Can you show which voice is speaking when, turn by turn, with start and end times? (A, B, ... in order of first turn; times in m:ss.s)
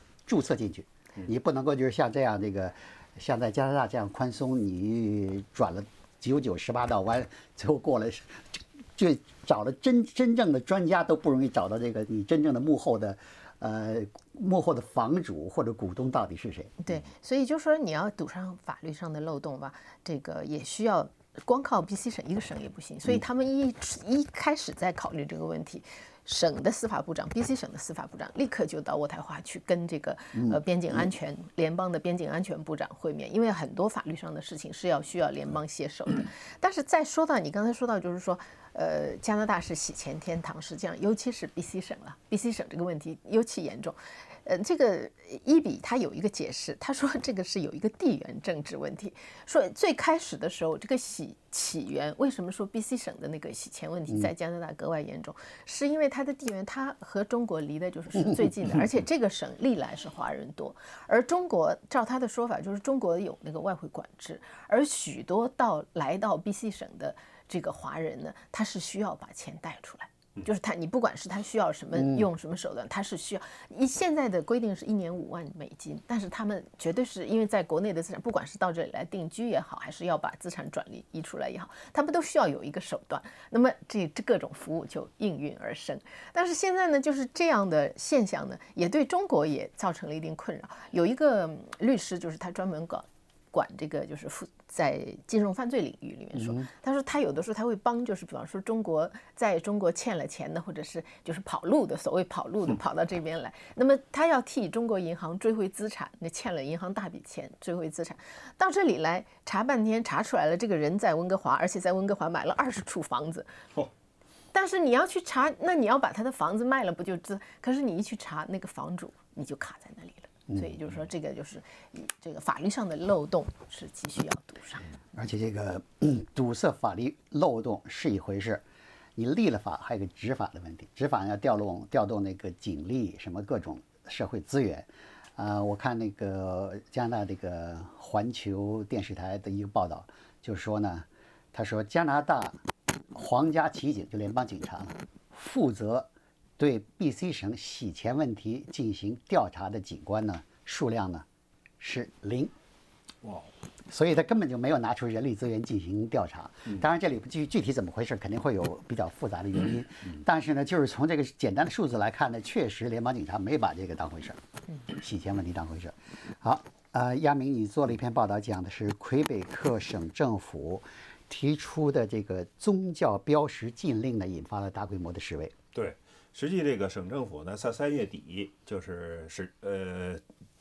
0:00.2-0:16.8 A
0:16.8-1:53.6 B
0:30.3-0:31.0 A
1:12.0-1:12.2 A
1:54.5-2:04.9 B
2:00.5-2:00.8 A
2:05.1-2:08.6 A
2:09.2-2:22.6 A
2:23.1-2:31.2 A
2:31.8-2:32.5 A
2:33.2-2:33.5 C
2:33.9-2:55.5 A
2:55.7-3:00.2 C